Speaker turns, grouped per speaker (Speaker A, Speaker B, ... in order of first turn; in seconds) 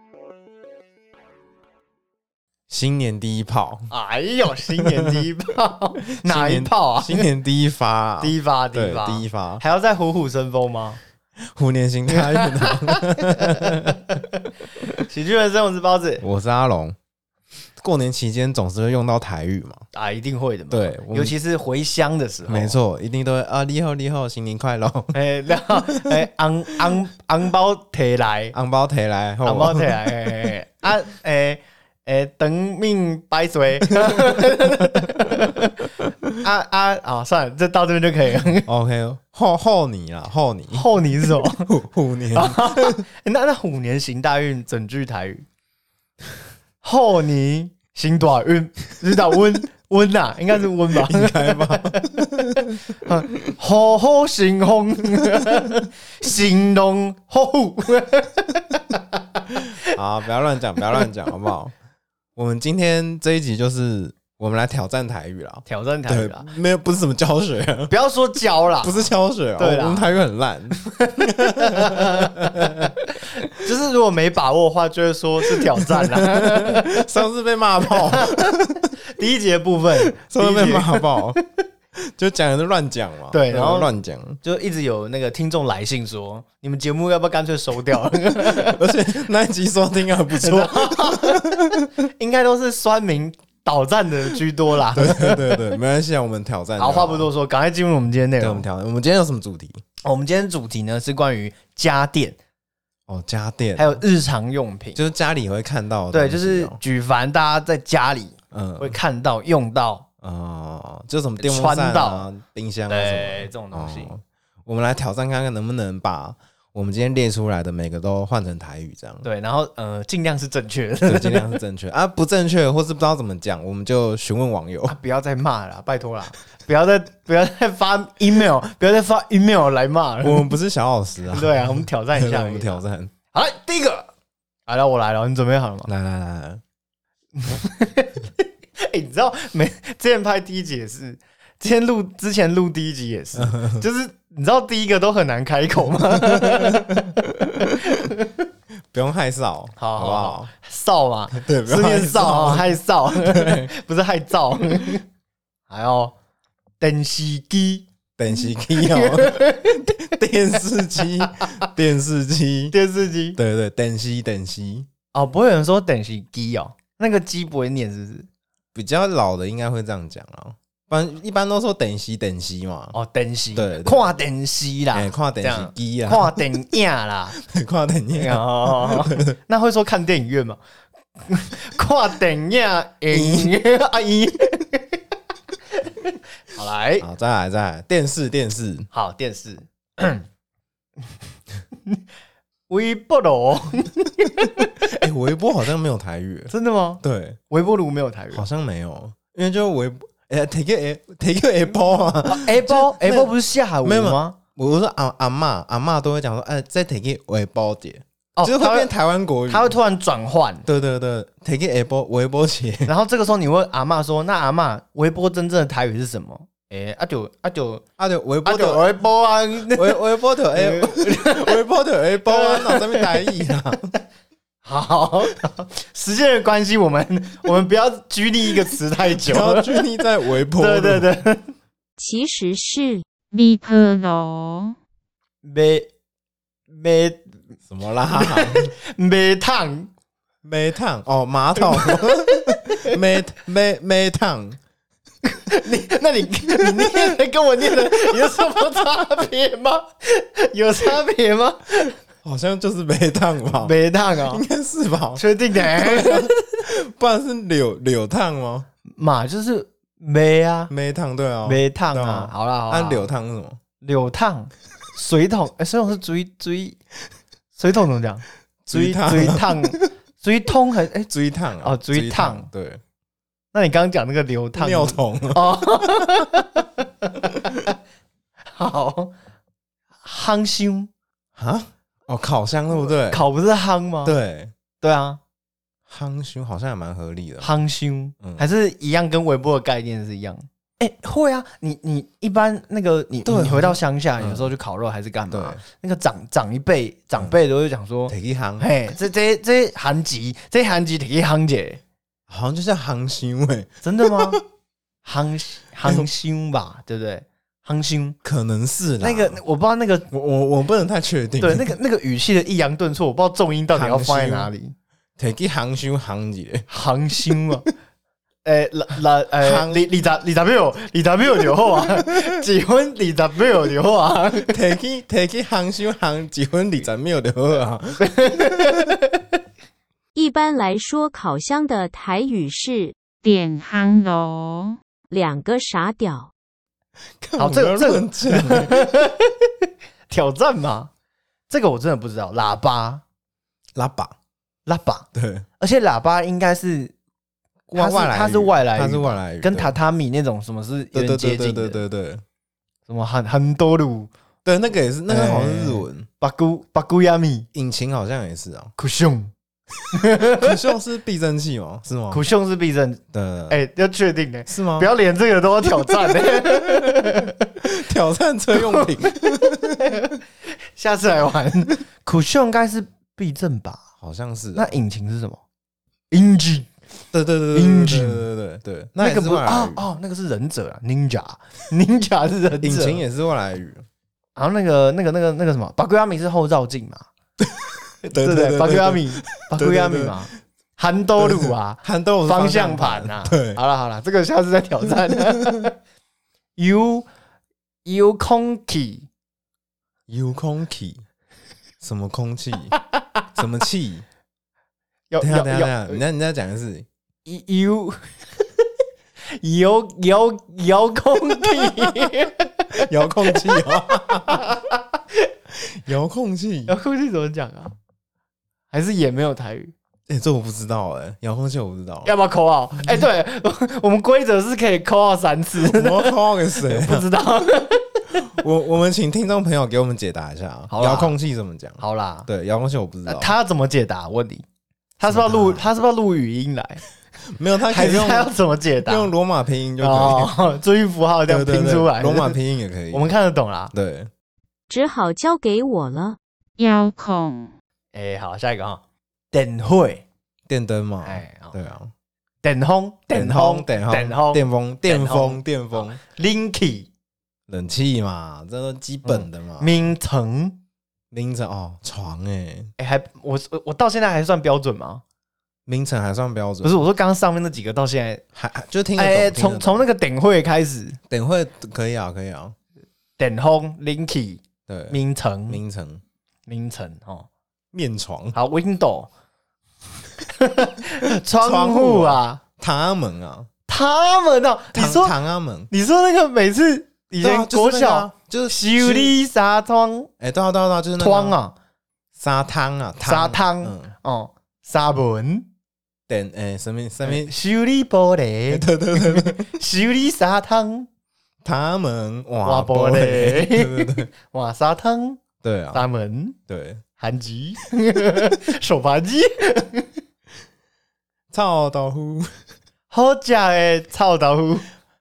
Speaker A: 2.7-3.9, 4.8-5.2, 6.2-9.6, 11.4-14.2, 16.2-17.0, 17.8-19.8, 20.7-21.3, 22.5-26.2, 28.5-30.5, 38.7-40.8, 41.4-43.0, 50.9-52.9, 59.9-61.7, 62.4-67.9, 68.8-72.9, 75.8-78.9, 80.1-81.4, 81.9-84.4, 88.4-91.9, 94.9-97.3, 98.4-99.8, 103.1-104.0, 104.9-106.8, 108.5-109.0, 110.2-119.2, 121.0-125.0, 130.2-133.1, 135.9-136.6, 143.3-143.8, 146.2-147.7, 148.9-150.5, 151.3-153.7, 158.2-162.7, 163.3-164.9, 168.7-172.9, 173.5-174.1, 174.9-176.6, 177.3-179.3, 183.1-183.6, 187.0-188.9, 194.4-197.4, 198.3-203.3, 203.8-209.7, 210.6-212.9, 218.0-218.8, 219.7-223.9, 229.1-231.1, 237.7-238.7, 240.4-244.6, 248.1-248.4, 252.2-253.7, 254.3-258.7, 260.7-263.6, 268.6-269.9, 271.1-272.8, 274.6-276.2, 281.4-283.2, 284.0-284.5, 285.9-287.5, 293.2-294.5, 295.3-295.6, 298.1-298.7, 302.3-304.4, 308.2-309.4, 310.1-311.7, 313.7-314.5, 315.2-316.7, 319.4-319.8, 324.5-328.8, 337.2-338.9, 343.8-344.1, 345.1-345.4, 347.7-349.7, 350.9-352.2, 354.4-356.1, 357.5-358.7, 360.3-362.2, 363.1-363.6, 364.4-364.9, 366.1-367.1, 367.6-370.0, 374.0-374.7, 377.1-379.8, 382.6-383.8, 387.4-390.3, 391.2-393.6, 395.1-395.6, 400.1-401.0, 401.8-402.7, 403.3-404.0, 405.2-406.9, 411.4-412.1, 412.8-414.4, 415.5-416.7, 420.1-422.1, 425.6-427.1, 428.2-433.3, 435.0-435.7, 437.3-438.3, 438.9-440.3, 441.3-443.1, 443.7-444.1, 450.5-451.9, 453.1-456.0, 457.5-459.9, 461.1-462.7, 465.7-466.8, 468.3-469.8, 471.1-472.5, 474.7-475.0, 475.5-476.0, 477.7-478.4, 481.4-483.5, 484.7-485.7, 487.2-489.1, 490.2-491.4, 492.1-493.9, 496.1-497.3, 498.5-499.5, 501.4-504.1, 505.4-505.8, 506.5-506.8, 511.3-512.3
Speaker B: 3.9-7.2, 8.2-11.0, 12.1-13.9, 15.0-16.2, 19.9-22.8, 25.1-28.6, 29.4-38.7, 40.7-41.7, 42.3-45.4, 46.8-52.0, 53.0-59.6, 65.7-66.5, 67.9-70.1, 70.9-77.0, 77.9-81.3, 83.3-88.8, 90.3-95.8, 96.8-98.7, 100.0-102.4, 103.8-105.0, 106.1-110.1, 111.4-112.3, 112.9-114.1, 119.2-121.6, 124.9-130.5, 131.3-134.1, 134.7-135.9, 137.4-148.3, 149.8-155.0, 155.7-156.1, 156.8-157.8, 158.7-159.9, 161.0-161.5, 162.7-163.4, 165.1-168.3, 172.9-177.4, 178.1-180.6, 181.2-185.0, 186.5-187.1, 188.9-190.3, 192.7-194.8, 196.5-198.4, 202.3-204.4, 208.3-208.9, 209.5-210.7, 212.8-217.8, 218.4-221.6, 222.3-223.1, 224.6-229.9, 230.5-231.5, 235.4-235.9, 236.7-237.3, 238.1-239.9, 241.6-242.9, 245.3-251.9, 253.6-254.4, 255.2-256.6, 258.9-260.7, 261.4-263.1, 263.8-266.8, 267.5-271.1, 271.6-272.5, 273.5-277.7, 278.5-279.1, 280.0-280.9, 282.8-284.1, 284.8-285.2, 287.4-301.8, 303.8-304.4, 305.0-308.2, 309.0-310.1, 311.4-314.8, 316.7-317.7, 318.4-324.6, 328.0-329.2, 337.4-339.5, 340.1-340.9, 341.5-343.0, 344.6-345.1, 345.6-346.9, 347.7-351.8, 352.9-354.1, 355.1-357.5, 358.8-359.3, 359.9-360.5, 362.1-367.4, 368.5-370.1, 370.8-373.8, 374.5-375.4, 376.1-376.7, 377.5-378.3, 379.0-383.0, 384.4-387.1, 388.1-395.7, 396.6-397.1, 397.8-399.1, 405.1-406.0, 407.2-408.6, 409.3-415.0, 416.7-417.7, 418.7-419.7, 422.0-428.2, 430.7-431.1, 431.8-432.3, 433.0-434.4, 435.0-436.8, 437.6-439.1, 439.8-442.4, 442.9-443.7, 447.9-450.0, 451.0-451.5, 452.4-456.9, 459.0-460.6, 462.8-465.0, 466.6-468.2, 468.9-471.0, 473.2-475.6, 476.5-477.3, 478.3-479.1, 480.3-482.4, 483.7-485.2, 485.7-490.1, 491.0-491.5, 493.0-495.5, 497.0-500.9, 502.4-505.2, 505.7-506.4, 507.0-509.9, 512.9-514.7
Speaker C: 232.0-233.0, 330.1-332.9, 335.1-336.3, 444.7-446.2
Speaker D: 233.3-234.8, 333.2-334.8, 446.6-447.5